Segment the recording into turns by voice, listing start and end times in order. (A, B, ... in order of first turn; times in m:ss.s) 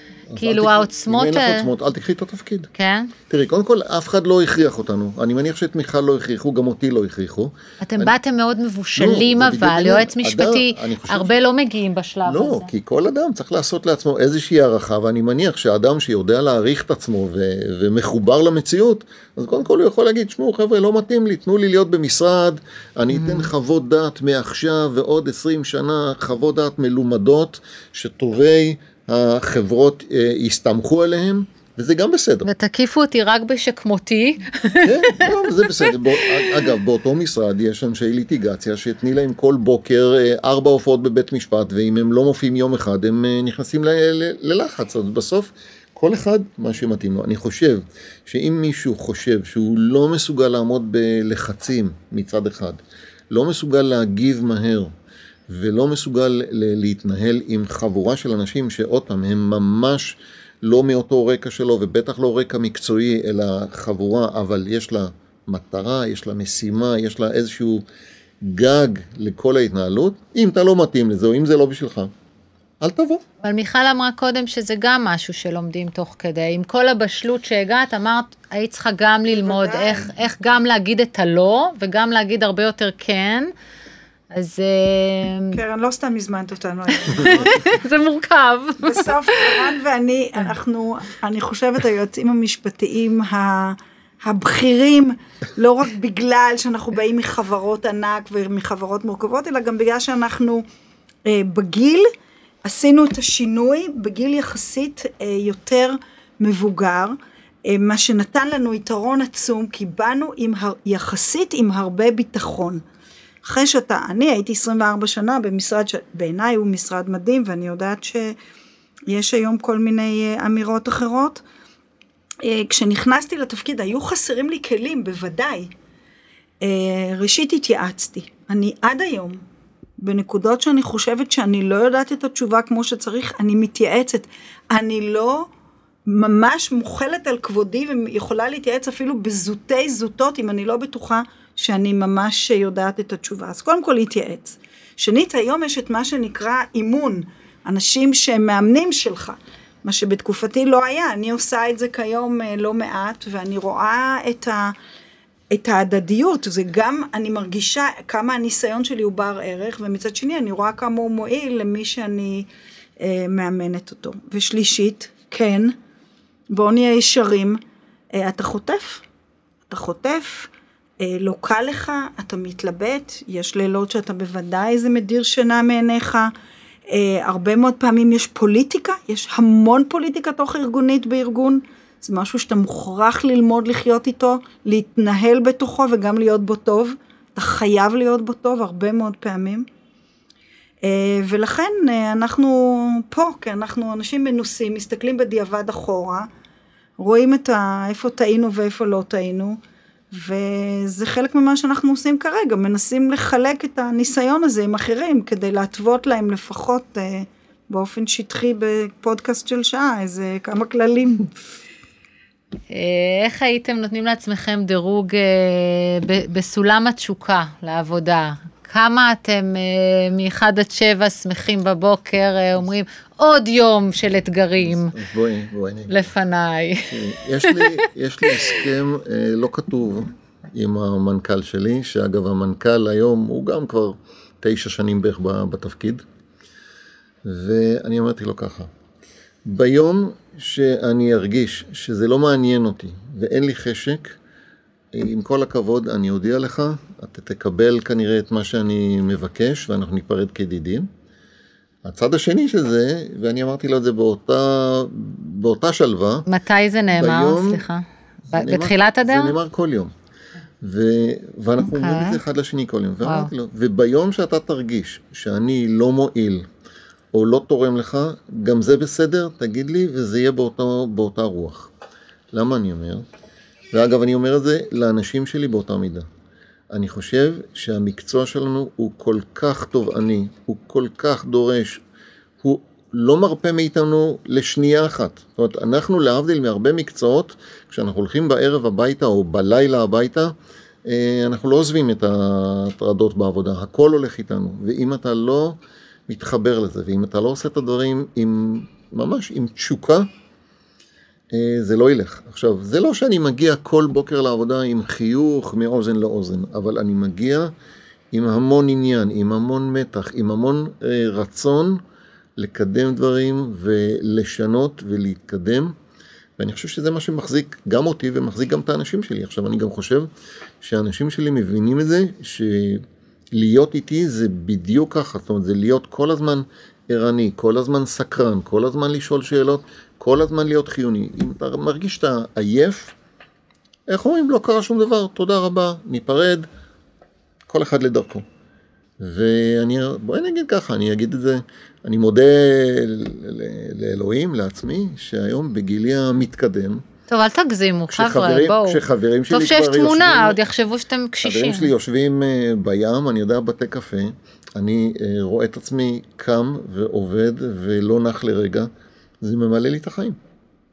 0:00.3-0:02.7 A
0:00.4-0:01.7 B
0:02.8-0:03.1 B
0:03.3-0:08.1 A
0:07.8-0:12.7 B
0:09.0-0:11.4 A
0:12.3-0:32.5 A
0:23.1-0:23.5 B
0:32.4-0:35.3 B
0:34.8-0:54.9 A
0:55.5-1:07.8 A
1:08.4-1:12.1 A
1:12.8-1:13.2 A
1:13.4-1:23.5 B
1:19.3-1:20.1 C
1:24.3-1:25.6 B
1:25.5-1:27.6 C
1:27.0-1:29.6 B
1:28.8-1:40.6 C
1:41.2-1:42.1 C
1:42.6-1:52.8 C
1:53.4-1:58.4 C
1:59.1-2:01.4 C
2:02.4-2:05.7 C
2:06.6-2:09.4 C
2:10.0-2:15.5 C
2:16.1-2:34.8 C
2:35.5-2:45.8 C
2:46.5-2:47.6 C
2:48.1-2:49.0 C
2:49.7-2:56.3 C
2:56.9-3:09.7 C
3:10.8-3:16.3 C
3:17.0-3:19.6 C
3:20.1-3:31.3 C
3:32.7-3:45.0 B
3:44.6-3:46.1 A
3:45.9-3:48.6 B
3:46.9-3:56.0 A
3:57.2-3:58.7 A
3:59.4-4:04.2 A
4:04.9-4:10.9 A
4:11.8-4:16.3 A
4:16.3-4:19.4 B
4:16.9-4:17.6 A
4:18.3-4:19.9 A
4:20.6-4:26.5 A
4:21.7-4:22.2 B
4:23.0-4:23.3 B
4:27.1-4:31.7 A
4:32.3-4:33.0 A
4:33.7-4:36.1 A
4:36.7-4:41.8 A
4:42.4-4:50.3 A
4:50.9-5:00.1 A
5:01.3-5:07.5 A
5:08.1-5:11.8 A
5:12.4-5:15.7 A
5:16.4-5:20.1 A
5:20.6-5:33.0 A
5:33.9-5:36.5 A
5:37.5-5:38.2 A
5:39.0-5:46.8 A
5:47.1-5:51.7 B
5:47.9-5:50.4 A
5:51.2-5:58.7 A
5:59.2-6:00.2 A